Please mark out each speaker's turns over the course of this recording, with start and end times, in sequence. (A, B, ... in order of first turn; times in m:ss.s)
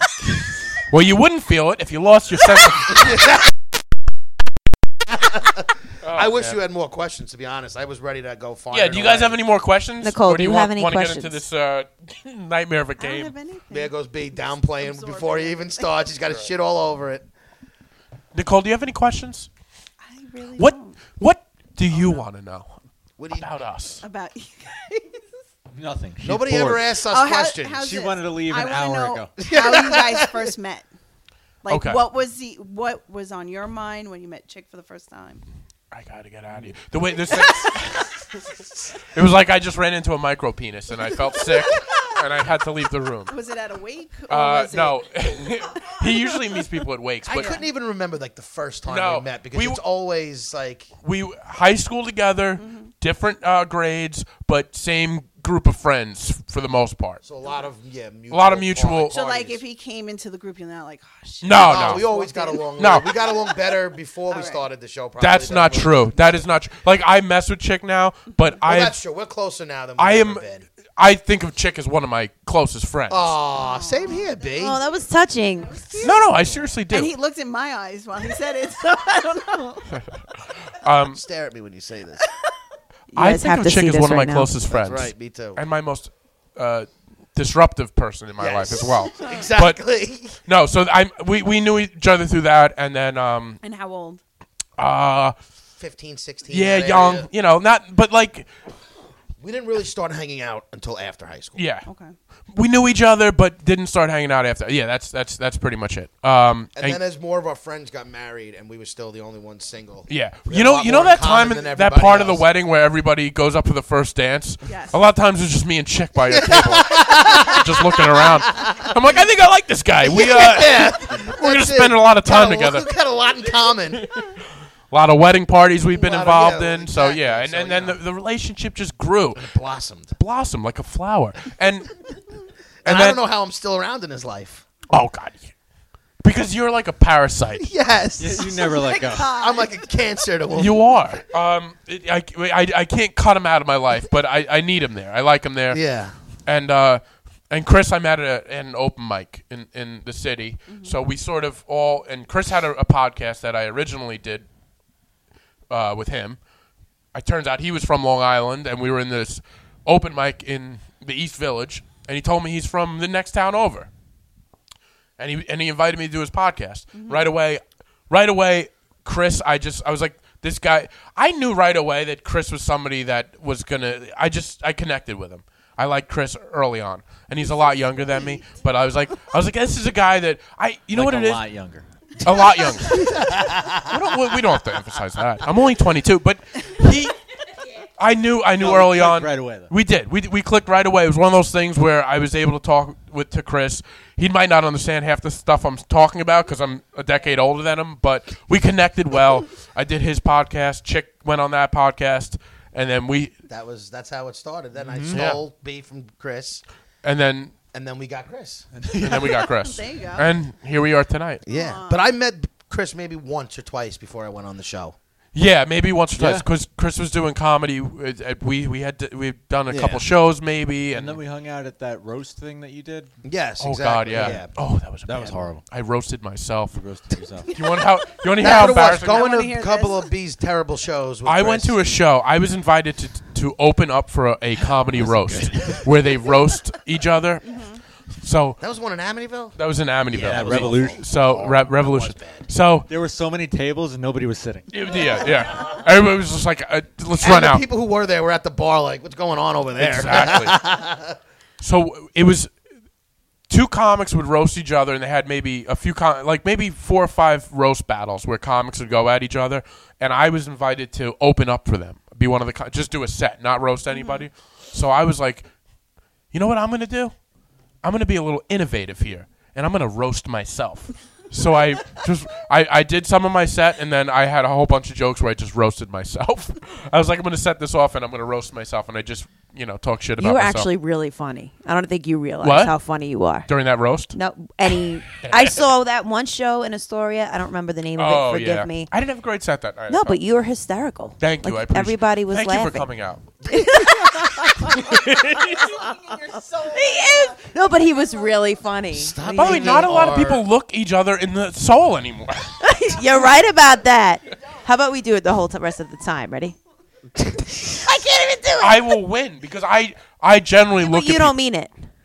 0:00.8-0:03.3 A
0:02.9-0:03.5 B
0:05.1-0:09.4 B
0:06.0-0:06.6 A
0:08.7-0:13.4 A
0:10.0-0:11.4 C
0:13.0-0:15.9 D
0:13.7-0:17.3 B
0:18.3-0:19.5 A
0:20.0-0:21.0 D
0:20.6-0:22.8 A
0:21.9-0:22.2 D
0:23.2-0:23.5 B
0:23.3-0:24.0 A
0:24.0-0:25.4 D
0:25.8-0:26.9 E
0:26.2-0:28.0 B
0:27.0-0:30.9 D
0:27.8-0:29.4 E
0:29.4-0:30.5 B
0:31.6-0:35.4 D
0:31.7-0:32.0 A
0:35.9-0:38.2 A
0:39.0-0:43.4 A
0:43.3-0:46.6 D
0:44.3-0:47.6 A
0:47.3-0:50.9 B
0:47.4-0:47.7 D
0:48.9-0:49.8 A
0:51.0-0:57.2 A
0:52.6-0:52.9 D
0:57.2-0:59.6 B
0:58.3-0:59.1 A
0:59.1-1:03.6 D
1:01.4-1:02.1 A
1:01.5-1:06.4 B
1:02.8-1:03.1 A
1:04.3-1:04.6 D
1:05.2-1:09.0 A
1:08.6-1:10.6 B
1:10.0-1:10.4 A
1:11.0-1:13.3 A
1:13.1-1:14.8 B
1:13.6-1:14.9 D
1:14.6-1:15.9 C
1:15.6-1:16.3 D
1:16.0-1:17.1 A
1:16.9-1:19.9 D
1:20.7-1:21.2 A
1:21.1-1:22.2 B
1:23.1-1:24.5 C
1:23.2-1:29.8 A
1:24.7-1:25.6 B
1:28.4-1:30.4 B
1:30.4-1:33.6 A
1:33.6-1:34.2 D
1:34.8-1:35.4 A
1:35.8-1:37.3 B
1:36.5-1:38.5 A
1:39.4-1:41.6 B
1:41.6-1:41.9 A
1:41.9-1:42.1 D
1:42.5-1:47.0 A
1:46.8-1:52.5 B
1:50.1-2:02.9 A
1:54.7-1:55.0 D
1:56.3-1:58.9 B
2:00.0-2:04.1 B
2:04.0-2:04.3 A
2:04.9-2:09.5 A
2:05.9-2:08.0 B
2:09.4-2:10.2 B
2:10.2-2:12.0 A
2:12.8-2:14.6 B
2:12.8-2:13.2 A
2:14.9-2:15.5 A
2:16.2-2:17.7 A
2:17.6-2:21.2 B
2:18.2-2:19.4 E
2:20.5-2:25.8 A
2:25.7-2:26.2 B
2:26.5-2:34.5 A
2:30.7-2:31.0 D
2:35.7-2:36.4 A
2:37.1-2:43.9 A
2:45.2-3:01.4 A
2:47.0-2:47.2 D
3:00.9-3:01.8 E
3:02.2-3:03.1 A
3:02.9-3:04.2 B
3:03.8-3:07.2 A
3:08.0-3:23.3 A
3:08.6-3:09.7 E
3:23.5-3:26.6 B
3:24.8-3:25.2 E
3:25.1-3:25.4 A
3:27.0-3:27.5 A
3:27.7-3:28.7 B
3:28.7-3:29.4 E
3:29.0-3:31.4 A
3:29.2-3:30.3 D
3:31.4-3:35.0 B
3:31.5-3:32.0 D
3:35.3-3:41.2 A
3:36.2-3:36.5 E
3:39.7-3:40.0 B
3:40.9-3:43.2 E
3:43.2-3:44.5 B
3:43.6-3:46.8 A
3:44.2-3:44.5 E
3:45.0-3:45.6 E
3:46.7-3:47.6 E
3:47.5-3:49.3 A
3:48.4-3:52.0 B
3:48.4-3:50.1 D
3:51.3-3:57.7 A
3:55.0-3:55.8 B
3:55.5-3:55.8 E
3:57.5-3:57.8 D
3:58.2-3:58.6 A
3:58.6-3:59.6 B
3:59.6-4:02.9 A
4:00.1-4:02.5 B
4:00.2-4:01.1 E
4:02.9-4:04.7 E
4:04.7-4:07.6 A
4:05.0-4:05.8 B
4:07.2-4:11.2 B
4:09.8-4:10.6 A
4:11.6-4:12.5 A
4:13.5-4:25.5 A
4:26.3-4:27.1 A
4:27.8-4:40.7 A
4:40.2-4:43.5 C
4:42.4-4:42.8 A
4:43.5-4:44.2 A
4:44.1-4:48.9 C
4:45.2-4:45.6 A
4:48.0-4:50.2 A
4:49.9-4:52.9 C
4:51.2-4:53.2 A
4:53.4-4:54.7 C
4:54.7-4:55.7 A
4:55.4-4:58.3 D
4:56.6-5:00.0 C
4:58.9-5:00.4 B
4:59.4-5:02.6 A
5:02.6-5:06.6 C
5:07.2-5:07.8 B
5:07.8-5:08.8 C
5:08.6-5:11.4 A
5:10.8-5:11.8 C